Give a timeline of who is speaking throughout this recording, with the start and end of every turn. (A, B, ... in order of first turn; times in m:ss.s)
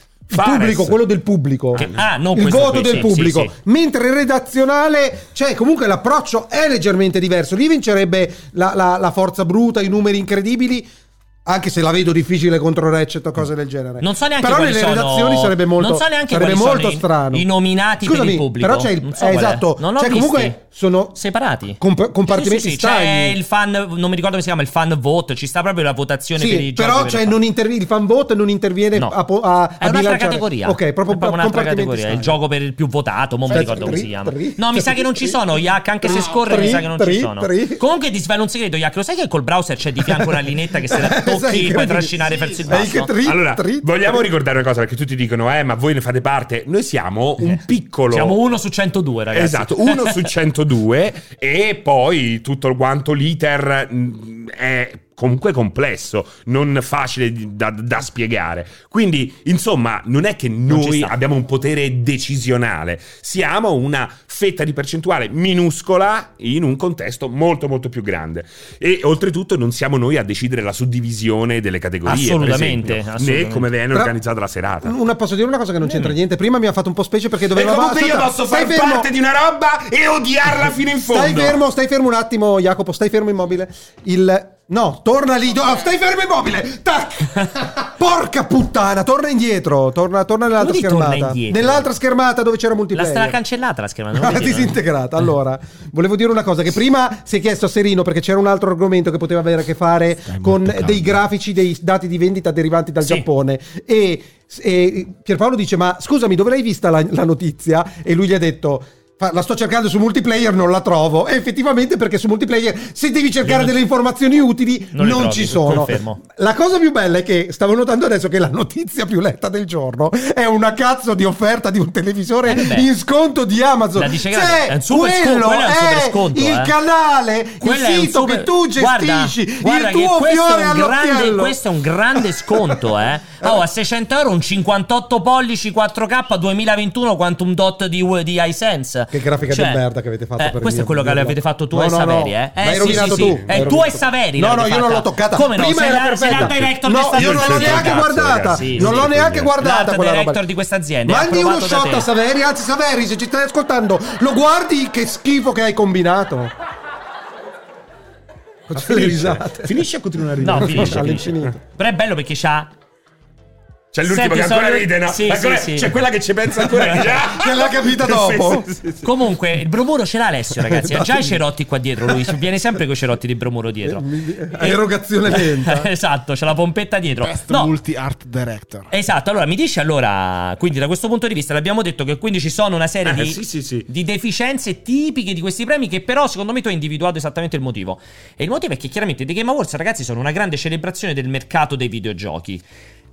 0:00.3-0:10.9 A
0:00.3-0:01.0 B
0:01.8-0:03.5 C
0:11.5-0:17.5 A
0:14.0-0:20.6 C
0:18.0-0:21.2 A
0:21.1-0:27.4 C
0:21.8-0:23.4 A
0:26.4-0:32.4 A
0:29.8-0:43.1 C
0:33.5-0:37.8 A
0:36.0-0:36.8 D
0:40.9-0:44.2 A
0:42.2-0:42.8 D
0:43.2-0:48.4 B
0:47.4-0:50.2 C
0:49.3-1:15.0 B
1:00.7-1:01.1 C
1:12.1-1:13.7 C
1:14.8-1:19.1 A
1:17.5-1:21.6 B
1:21.1-1:33.4 A
1:30.6-1:31.9 C
1:32.9-1:34.8 C
1:34.2-2:11.6 A
1:53.4-1:53.8 C
1:54.9-1:56.2 C
2:02.4-2:02.9 C
2:04.0-2:06.7 C
2:07.6-2:19.8 C
2:12.2-2:12.8 A
2:19.1-2:30.4 A
2:20.4-2:32.1 C
2:22.8-2:23.7 B
2:25.9-2:29.5 B
2:31.1-2:36.5 A
2:38.7-2:39.7 A
2:38.7-2:41.5 B
2:40.4-2:42.7 C
2:40.5-2:41.6 A
2:43.9-2:49.1 B
2:44.1-2:45.9 C
2:46.7-2:47.1 C
2:47.2-2:48.7 A
2:49.0-2:54.0 C
2:50.6-2:51.4 A
2:53.8-2:55.9 A
2:54.6-2:57.7 C
2:57.2-2:58.9 D
2:58.9-3:12.6 C
3:03.1-3:03.9 B